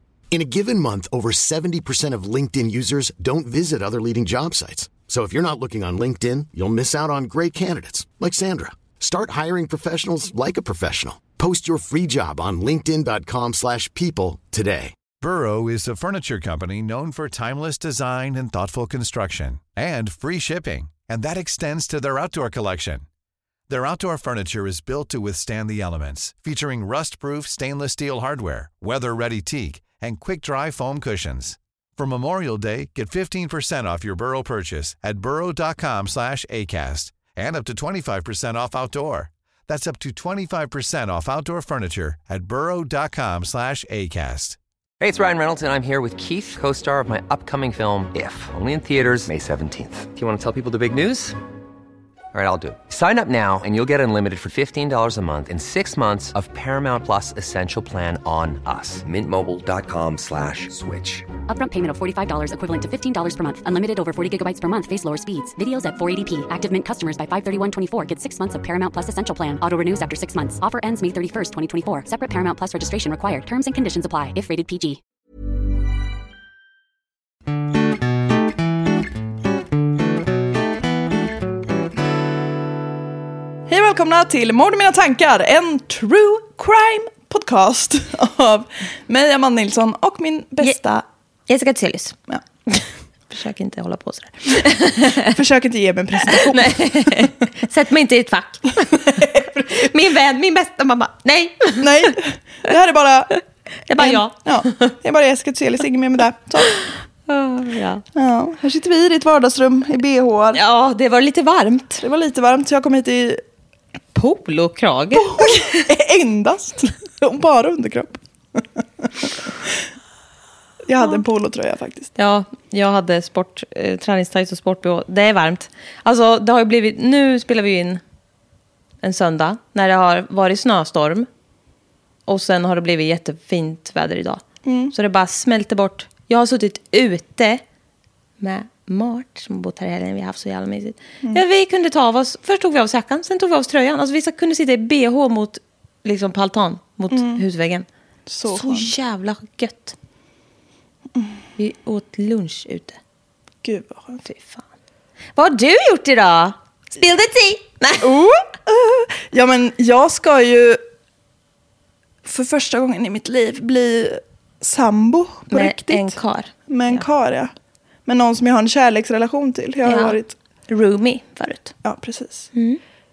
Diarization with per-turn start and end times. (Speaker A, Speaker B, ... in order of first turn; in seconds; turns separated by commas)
Speaker A: 0.3-15.0, Speaker B: 15.2-23.1, Speaker B: 23.7-44.6, Speaker C: 45.0-51.4, Speaker C: 52.3-61.3, Speaker D: 61.5-75.0, Speaker E: 83.7-91.0, Speaker F: 91.5-95.3, Speaker E: 95.2-97.3, Speaker F: 96.3-102.1, Speaker E: 101.8-103.4, Speaker F: 103.9-104.9, Speaker E: 104.0-106.8, Speaker F: 107.3-108.0, Speaker E: 108.2-110.6, Speaker F: 110.5-112.0, Speaker E: 112.0-113.4, Speaker F: 114.1-115.9, Speaker E: 115.1-119.1, Speaker E: 120.8-122.1, Speaker F: 122.2-128.0, Speaker F: 129.0-131.3, Speaker F: 132.3-134.4, Speaker E: 134.6-134.9, Speaker F: 134.9-137.6, Speaker F: 138.4-147.9, Speaker E: 147.1-147.4, Speaker E: 148.3-148.9, Speaker F: 148.5-149.9, Speaker F: 151.6-153.0, Speaker E: 153.6-154.2, Speaker F: 154.2-154.6, Speaker F: 155.4-158.1, Speaker E: 158.0-160.8, Speaker E: 162.2-166.1, Speaker F: 165.5-167.0, Speaker E: 166.7-167.5, Speaker E: 168.1-170.3, Speaker F: 169.8-171.7, Speaker E: 171.8-172.5, Speaker F: 172.6-172.8